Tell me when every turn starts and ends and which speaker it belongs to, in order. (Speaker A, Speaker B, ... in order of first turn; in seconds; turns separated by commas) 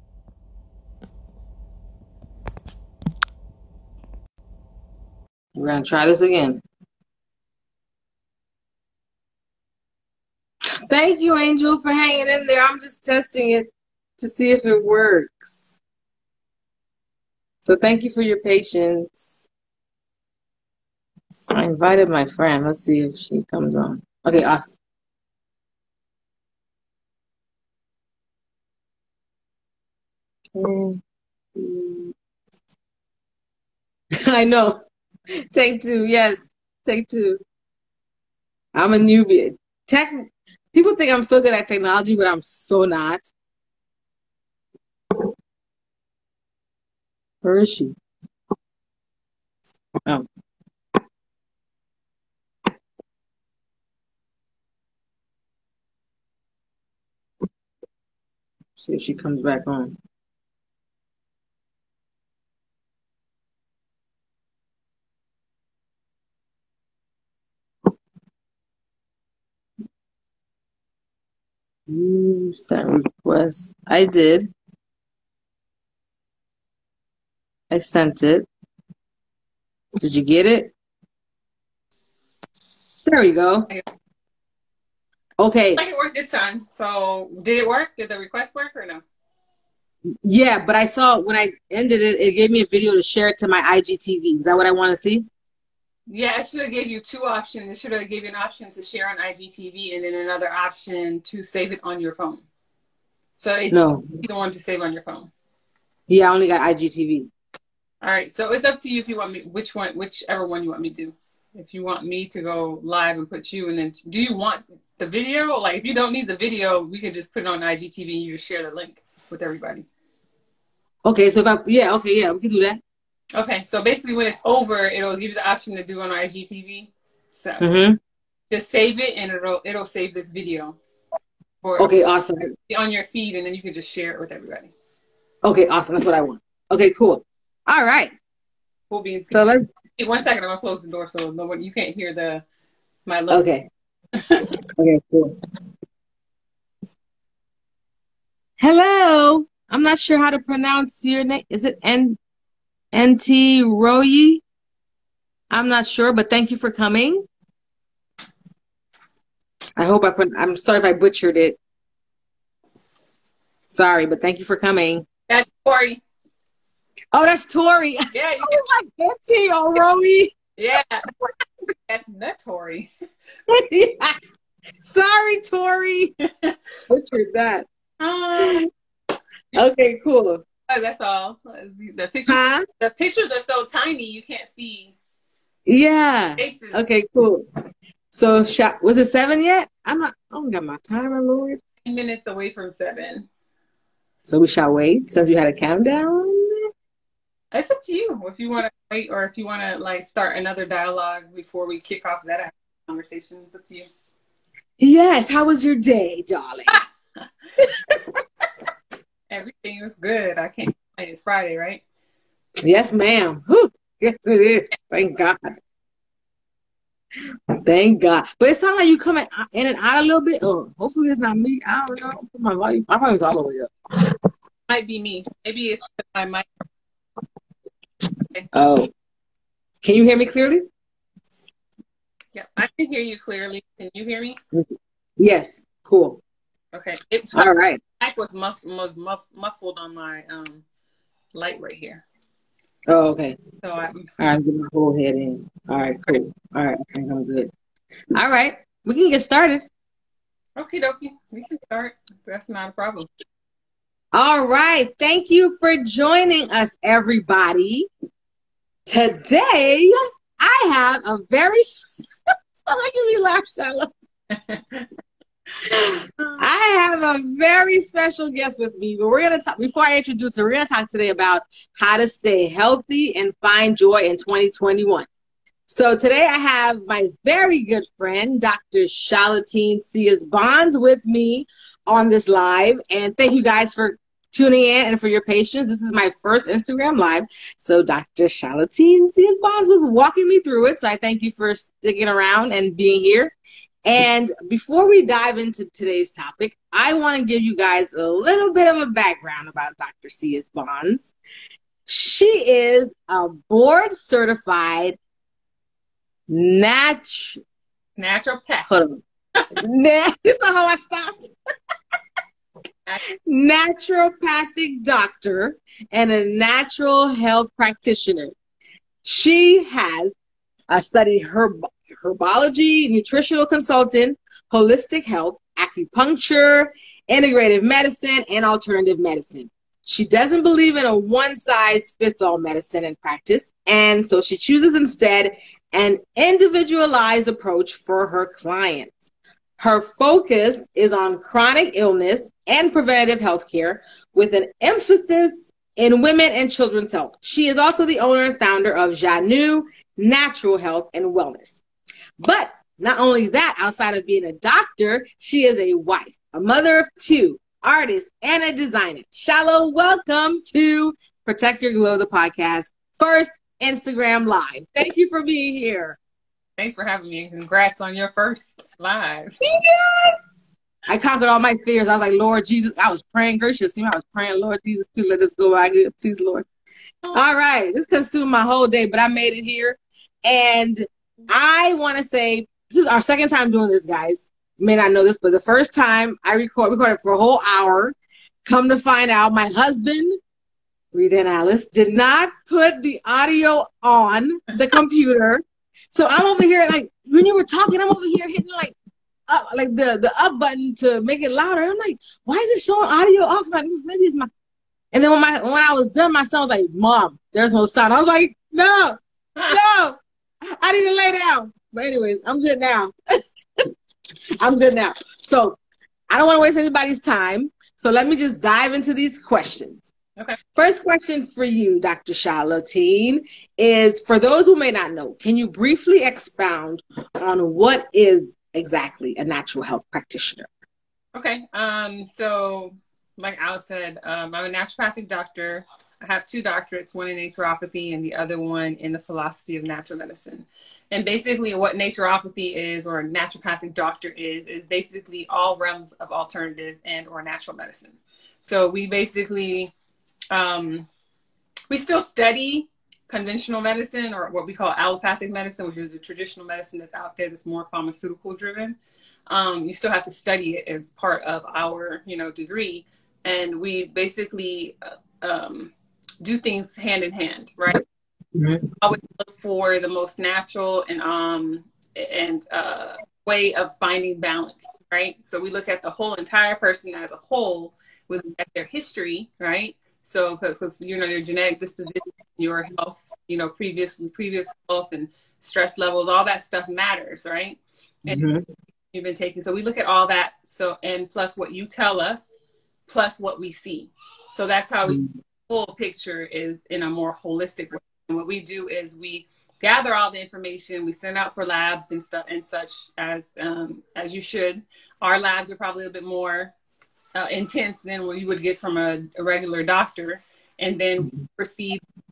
Speaker A: 5.5-6.6, Speaker A: 10.9-15.8, Speaker A: 17.6-19.5, Speaker A: 21.5-24.8, Speaker A: 30.6-31.0, Speaker A: 31.6-32.1, Speaker A: 34.2-34.8, Speaker A: 35.5-37.4, Speaker A: 38.7-43.2, Speaker A: 47.4-48.0, Speaker A: 58.8-60.0, Speaker A: 71.9-74.5, Speaker A: 77.7-78.5, Speaker A: 80.0-80.7, Speaker A: 83.0-83.7, Speaker A: 85.4-85.8, Speaker B: 85.8-89.0, Speaker A: 90.2-95.2, Speaker B: 96.1-102.5, Speaker B: 103.4-105.3, Speaker A: 103.7-104.2, Speaker A: 106.1-107.3, Speaker B: 108.0-119.9, Speaker A: 121.0-122.8, Speaker B: 123.3-127.8, Speaker A: 127.6-128.0, Speaker B: 128.5-130.8, Speaker B: 131.6-131.9, Speaker A: 131.8-132.5, Speaker B: 132.7-134.7, Speaker A: 135.4-138.1, Speaker B: 138.9-142.4, Speaker A: 139.3-139.6, Speaker B: 143.1-143.5, Speaker A: 143.3-143.7, Speaker B: 144.2-144.5, Speaker A: 144.8-145.3, Speaker A: 148.6-152.2, Speaker A: 152.9-154.4, Speaker A: 155.5-157.2, Speaker A: 159.8-161.6, Speaker A: 163.7-165.1, Speaker B: 165.3-166.0, Speaker A: 167.1-170.3, Speaker B: 168.1-168.6, Speaker B: 170.6-171.0, Speaker B: 171.9-172.9, Speaker A: 173.5-174.2, Speaker A: 174.8-176.1, Speaker A: 176.9-177.7, Speaker B: 178.0-178.7, Speaker A: 178.4-178.6, Speaker A: 179.6-180.4, Speaker B: 180.7-184.9, Speaker A: 182.3-182.6, Speaker A: 185.7-187.4, Speaker B: 186.4-186.8, Speaker A: 188.1-191.6, Speaker B: 191.8-193.3, Speaker A: 194.2-196.7, Speaker B: 197.5-203.9, Speaker A: 204.8-206.8, Speaker B: 206.7-207.2, Speaker A: 207.6-208.0, Speaker B: 209.3-211.8, Speaker A: 212.6-215.6, Speaker A: 217.6-224.1, Speaker B: 224.7-226.5, Speaker A: 228.5-228.9, Speaker A: 229.8-230.6, Speaker B: 232.3-234.4, Speaker A: 235.2-236.2, Speaker B: 236.7-240.6, Speaker A: 237.3-237.8, Speaker B: 241.3-242.0, Speaker A: 242.9-243.4, Speaker B: 243.6-244.1, Speaker A: 244.2-247.5, Speaker A: 248.1-249.7, Speaker B: 250.6-253.1, Speaker A: 254.1-257.9, Speaker A: 258.9-261.8, Speaker A: 262.5-263.9, Speaker B: 264.3-264.9, Speaker A: 265.6-275.1, Speaker A: 275.7-293.3, Speaker A: 293.8-301.1, Speaker A: 301.9-305.0, Speaker A: 306.3-307.4, Speaker B: 308.0-308.7, Speaker A: 308.7-309.0, Speaker A: 309.6-311.3, Speaker A: 313.2-318.3, Speaker A: 319.0-320.1, Speaker A: 320.7-339.1, Speaker A: 339.6-351.6, Speaker A: 352.2-366.0, Speaker B: 366.6-369.4, Speaker A: 369.4-370.2, Speaker A: 370.9-376.5, Speaker A: 377.1-390.1, Speaker A: 390.9-398.8, Speaker A: 399.3-404.3, Speaker A: 404.9-412.9, Speaker A: 414.4-415.6, Speaker A: 416.1-419.9, Speaker A: 420.5-430.5, Speaker B: 431.1-449.7, Speaker B: 450.3-450.9, Speaker B: 451.7-458.8, Speaker B: 459.3-467.8, Speaker A: 468.3-468.6, Speaker B: 468.8-488.3, Speaker A: 488.1-488.4, Speaker B: 488.9-492.3, Speaker B: 492.9-506.5, Speaker A: 494.9-495.1, Speaker B: 507.1-511.8